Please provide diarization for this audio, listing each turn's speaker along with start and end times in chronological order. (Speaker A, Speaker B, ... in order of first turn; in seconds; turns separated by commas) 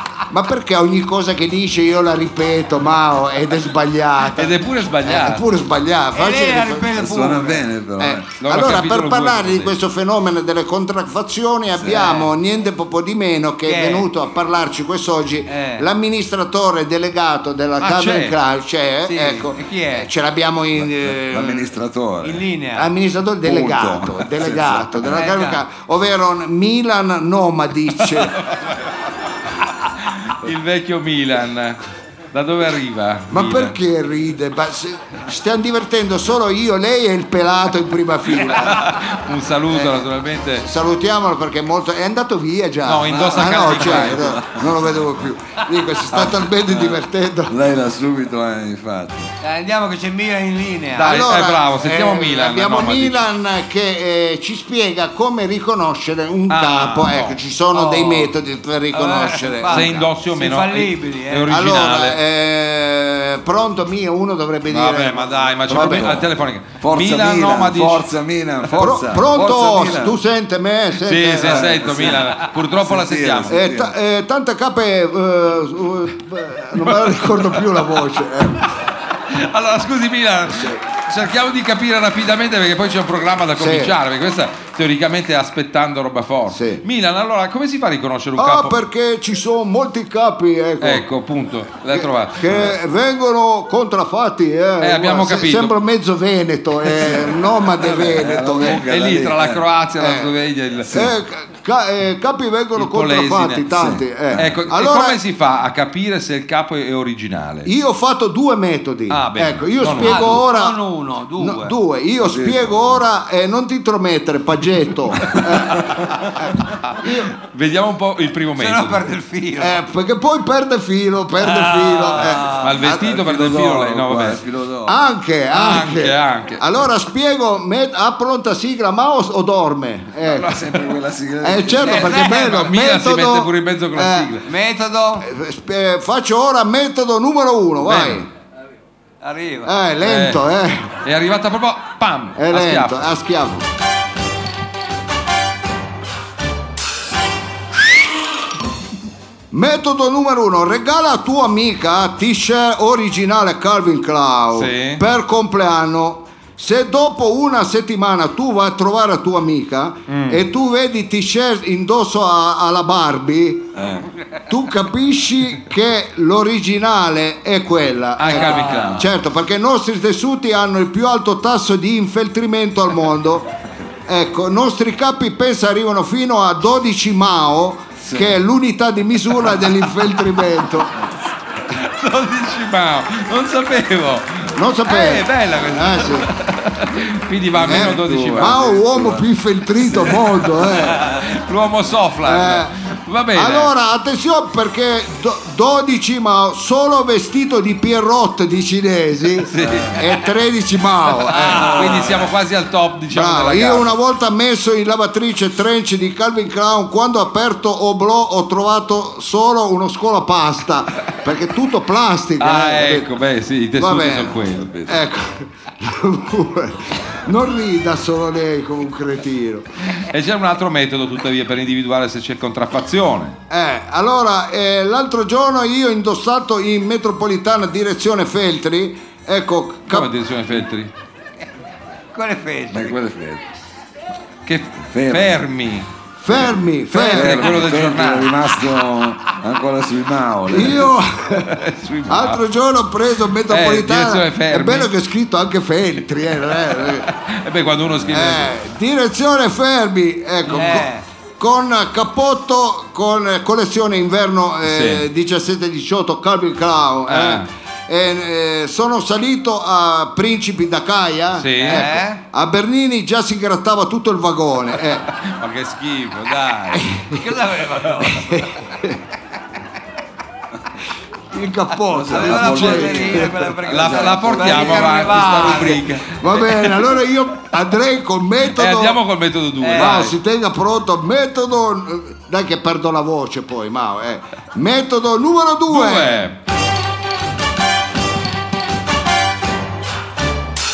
Speaker A: 0.3-7.0, Speaker B: 4.4-5.5, Speaker C: 6.1-7.7, Speaker D: 6.9-8.3, Speaker A: 8.0-21.7, Speaker B: 8.4-9.8, Speaker D: 11.7-12.2, Speaker C: 12.0-12.3, Speaker C: 13.7-14.1, Speaker C: 15.5-15.9, Speaker B: 17.8-18.4, Speaker C: 19.1-20.1, Speaker D: 20.8-22.5, Speaker C: 22.2-22.9, Speaker A: 22.8-28.4, Speaker D: 23.4-25.3, Speaker C: 25.1-25.6, Speaker B: 28.1-28.9, Speaker B: 29.8-31.8, Speaker B: 32.3-33.8, Speaker A: 33.3-39.0, Speaker B: 38.4-40.7, Speaker A: 40.6-47.6, Speaker B: 42.8-44.4, Speaker D: 43.2-45.0, Speaker B: 46.1-46.4, Speaker D: 46.6-49.3, Speaker C: 49.4-51.3, Speaker A: 51.0-60.1, Speaker B: 51.0-53.2, Speaker B: 56.5-57.4, Speaker C: 57.7-58.3, Speaker C: 58.9-61.5, Speaker B: 59.7-62.2, Speaker A: 61.5-66.3, Speaker B: 64.7-68.1, Speaker D: 65.7-66.2, Speaker D: 66.8-70.2, Speaker A: 68.8-72.2, Speaker B: 71.0-73.6, Speaker D: 71.4-74.0, Speaker A: 73.5-78.8, Speaker B: 76.8-77.8, Speaker B: 79.2-88.8, Speaker A: 80.5-80.8, Speaker A: 83.6-84.0, Speaker A: 86.5-86.8, Speaker A: 88.4-91.0, Speaker B: 90.8-92.8, Speaker A: 91.9-98.8, Speaker B: 94.8-95.8, Speaker B: 96.9-97.3, Speaker D: 97.8-99.7, Speaker B: 98.6-101.2, Speaker A: 100.0-100.3, Speaker A: 100.9-105.2, Speaker B: 102.8-103.7, Speaker D: 103.7-104.6, Speaker B: 104.3-107.7, Speaker A: 107.7-110.8, Speaker B: 109.1-110.5, Speaker C: 110.0-111.8, Speaker A: 111.4-117.3, Speaker D: 112.2-113.0, Speaker D: 115.3-115.5, Speaker B: 116.9-119.2, Speaker C: 118.6-119.8, Speaker A: 119.6-123.1, Speaker C: 121.4-122.7, Speaker B: 122.5-124.4, Speaker D: 122.8-125.0, Speaker A: 124.9-130.8, Speaker B: 125.5-126.6, Speaker D: 130.2-132.1, Speaker A: 131.4-134.4, Speaker C: 131.8-132.5, Speaker B: 131.9-134.4, Speaker C: 134.4-135.3, Speaker A: 135.2-138.3, Speaker B: 137.8-138.2, Speaker C: 139.2-139.7, Speaker A: 139.7-140.9, Speaker B: 140.0-140.4, Speaker B: 141.0-143.1, Speaker A: 142.4-143.7, Speaker A: 149.5-163.8, Speaker B: 154.5-155.0, Speaker B: 160.1-160.4, Speaker D: 163.8-164.1, Speaker A: 164.5-173.5, Speaker B: 168.2-169.1, Speaker C: 168.3-168.9, Speaker A: 174.1-180.9, Speaker D: 178.0-178.4, Speaker B: 181.7-188.8, Speaker A: 184.6-186.3, Speaker D: 187.5-189.3, Speaker A: 187.6-191.1, Speaker B: 190.6-193.7, Speaker A: 192.2-192.7, Speaker A: 193.3-202.2, Speaker B: 199.4-200.0, Speaker D: 199.6-199.9, Speaker B: 201.2-203.9, Speaker A: 203.1-213.1, Speaker B: 212.4-214.7, Speaker A: 213.8-219.7, Speaker D: 214.6-215.1, Speaker B: 219.9-223.4, Speaker A: 223.5-230.1, Speaker B: 229.9-230.9, Speaker C: 232.1-232.9, Speaker D: 232.7-233.5, Speaker B: 234.5-238.4, Speaker D: 234.8-235.4, Speaker A: 236.2-237.6, Speaker D: 237.1-240.9, Speaker A: 240.5-247.1, Speaker B: 241.4-242.4, Speaker B: 243.5-244.9, Speaker B: 246.7-248.6, Speaker A: 248.1-265.1, Speaker C: 250.4-251.0, Speaker B: 254.7-255.1, Speaker B: 257.1-257.5, Speaker B: 261.3-261.9, Speaker C: 261.6-262.2, Speaker B: 265.1-266.9, Speaker A: 266.7-267.2, Speaker C: 267.1-268.4, Speaker A: 268.0-269.0, Speaker A: 271.3-273.5, Speaker D: 271.9-275.2, Speaker C: 272.1-275.9, Speaker B: 273.7-276.8, Speaker A: 275.4-279.0, Speaker B: 278.4-280.1, Speaker C: 279.6-280.0, Speaker A: 279.7-286.2, Speaker B: 285.7-286.4